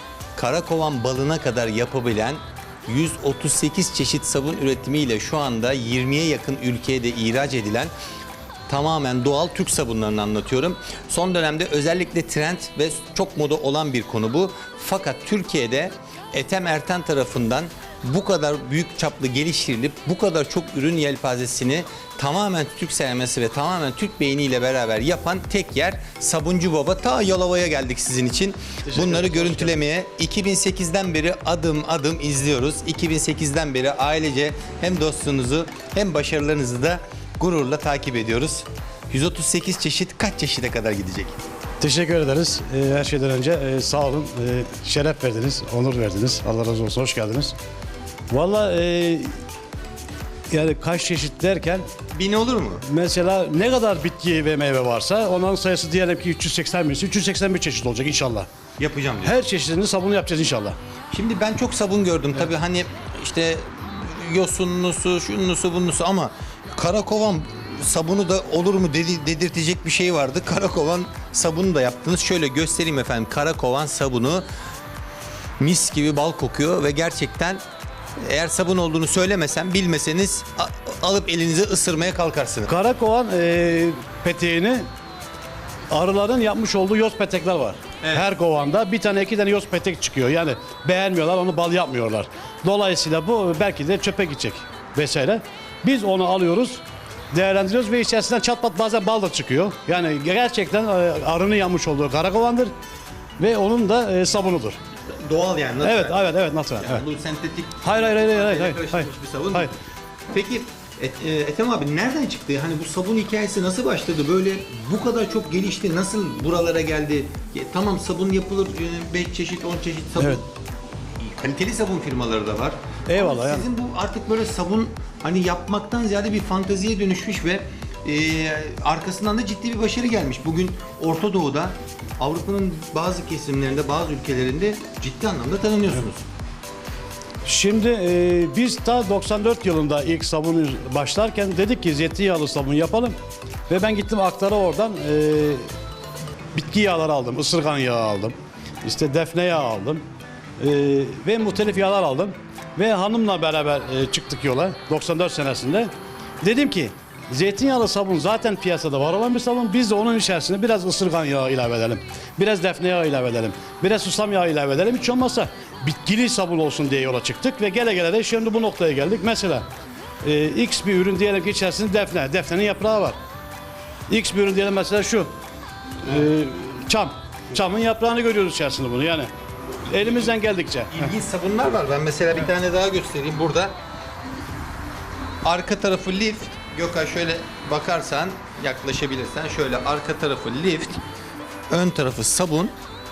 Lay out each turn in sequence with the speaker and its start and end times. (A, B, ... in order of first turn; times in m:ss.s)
0:00.4-0:07.9 A
0:08.7-0:41.4 A
0:28.8-0:29.8 B
0:41.8-0:47.6 B
0:48.3-0:49.3 B
0:50.5-0:51.9 B
0:52.1-0:52.8 A
0:52.8-0:58.5 B
0:58.8-0:59.4 A
0:59.2-1:00.8 B
1:01.1-1:14.4 A
1:15.6-1:17.6 A
1:18.2-1:22.7 A
1:22.7-1:24.9 B
1:25.9-1:42.7 B
1:28.0-1:28.3 A
1:43.4-1:44.8 B
1:45.2-1:49.7 A
1:45.8-1:47.0 B
1:47.8-1:49.7 B
1:50.3-2:00.4 A
2:01.2-2:16.2 A
2:03.1-2:03.6 B
2:17.4-2:23.2 B
2:23.7-2:25.6 B
2:26.5-2:30.0 B
2:30.6-2:35.9 B
2:36.4-2:49.6 B
2:50.2-2:53.2 B
2:54.1-2:55.3 B
2:56.0-2:59.3 B
2:59.9-3:01.1 B
3:00.9-3:03.8 A
3:05.4-3:11.0 A
3:11.7-3:12.7 A